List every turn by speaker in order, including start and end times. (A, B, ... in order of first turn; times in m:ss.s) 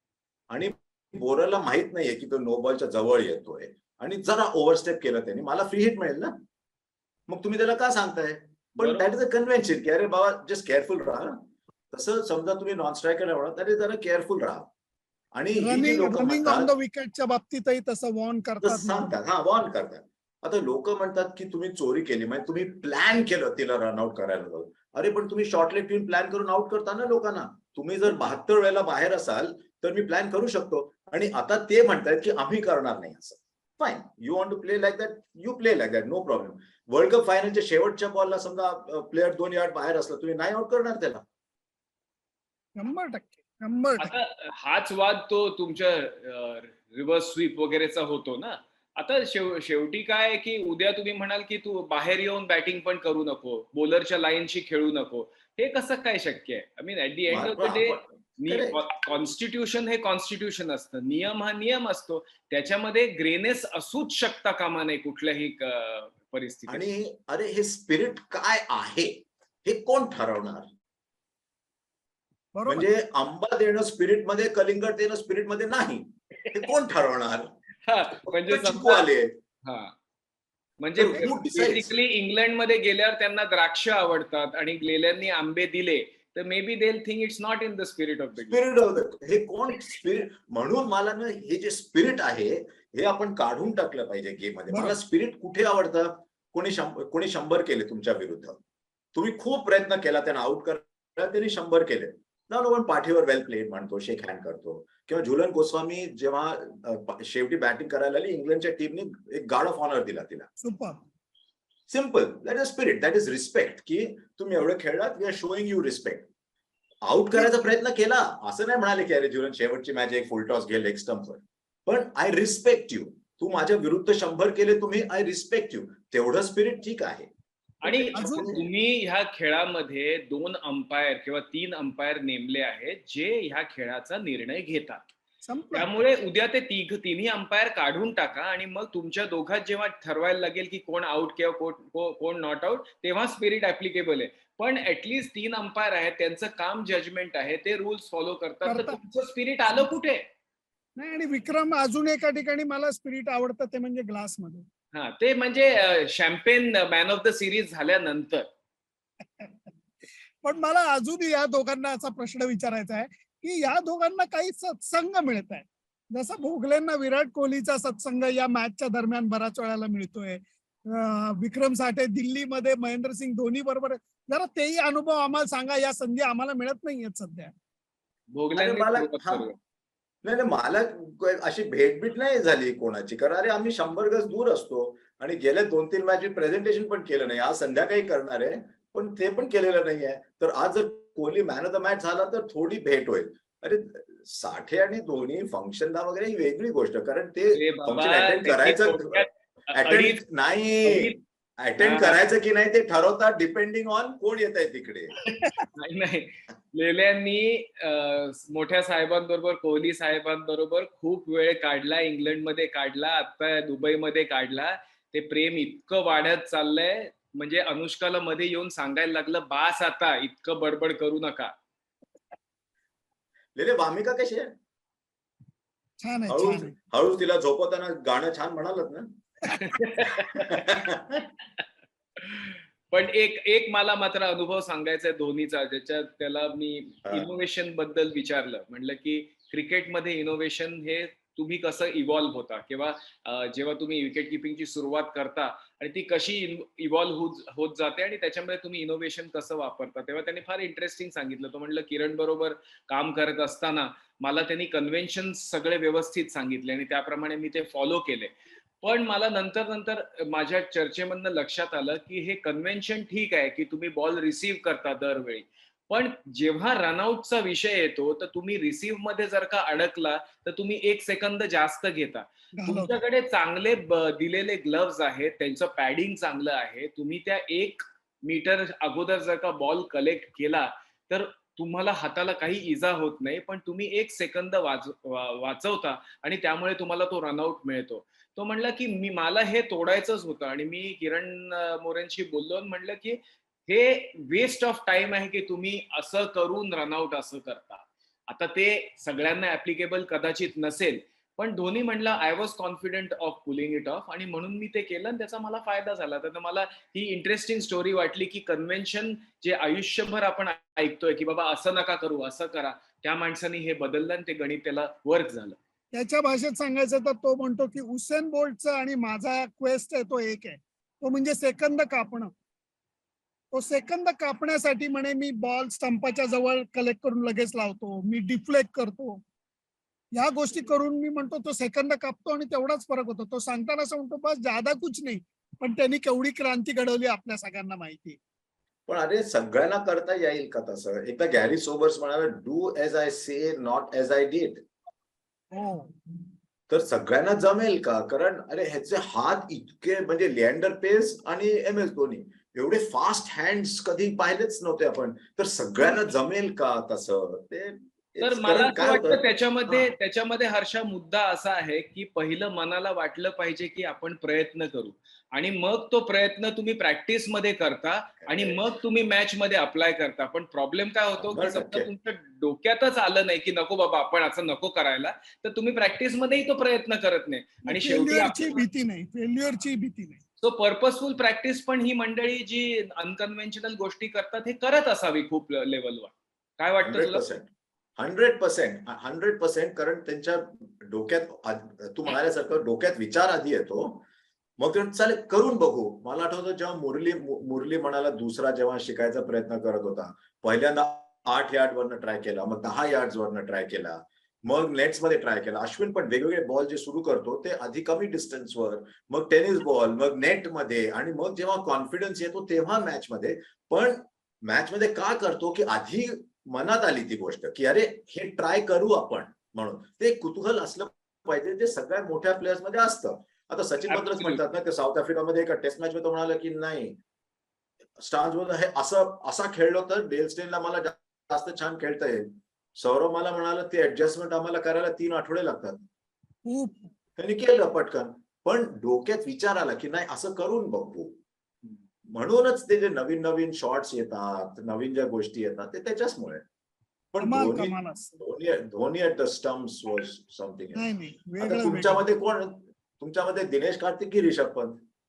0:00.5-0:06.4 A
0:07.3-0:11.4 A
0:08.8-0:09.0 B
0:11.9-0:14.7 A
0:15.3-0:16.7 A
0:15.6-0:19.1 C
0:18.6-0:41.2 A
0:42.8-0:44.1 C
0:44.0-1:06.8 B
0:57.3-0:58.8 A
1:06.7-1:10.7 A
1:12.5-1:12.9 C
1:12.7-1:17.5 A
1:17.9-1:19.0 B
1:18.2-1:19.3 A
1:19.6-1:19.9 B
1:20.8-1:28.6 B
1:20.9-1:21.9 A
1:28.4-1:38.6 A
1:34.7-1:35.0 C
1:39.1-1:50.5 A
1:50.6-1:51.0 C
1:51.9-1:56.3 A
1:57.0-2:07.3 A
1:57.4-1:57.7 C
2:07.8-2:15.0 B
2:07.8-2:08.7 A
2:08.1-2:08.5 C
2:15.5-2:15.9 C
2:15.7-2:30.2 B
2:28.6-2:29.0 C
2:31.0-2:34.6 C
2:34.9-2:38.4 B
2:40.4-2:57.5 C
2:58.3-2:59.6 B
2:58.5-2:59.4 A
3:00.2-3:25.2 A
3:17.5-3:20.2 B
3:20.8-3:21.2 B
3:21.8-3:22.2 B
3:25.2-3:41.5 B
3:25.4-3:25.7 C
3:43.5-3:44.5 A
3:46.0-3:46.7 C
3:46.3-3:49.1 A
3:49.5-3:50.5 B
3:50.0-3:51.3 A
3:52.2-5:15.6 B
4:32.6-4:33.0 C
5:15.9-5:22.3 C
5:23.5-5:29.2 C
5:30.2-5:38.2 C
5:38.9-5:44.6 A
5:45.5-5:45.9 C
5:46.7-5:59.9 A
5:58.2-6:18.6 B
6:08.2-6:08.7 A
6:11.2-6:11.9 A
6:17.7-6:20.2 C
6:20.4-6:27.2 B
6:26.8-6:34.0 A
6:34.6-7:07.0 A
7:03.9-7:04.4 B
7:08.0-7:15.8 A
7:16.4-7:16.9 C
7:17.2-7:21.1 A
7:22.0-7:26.4 A
7:27.1-7:34.8 A
7:27.2-7:28.1 C
7:30.7-7:32.0 C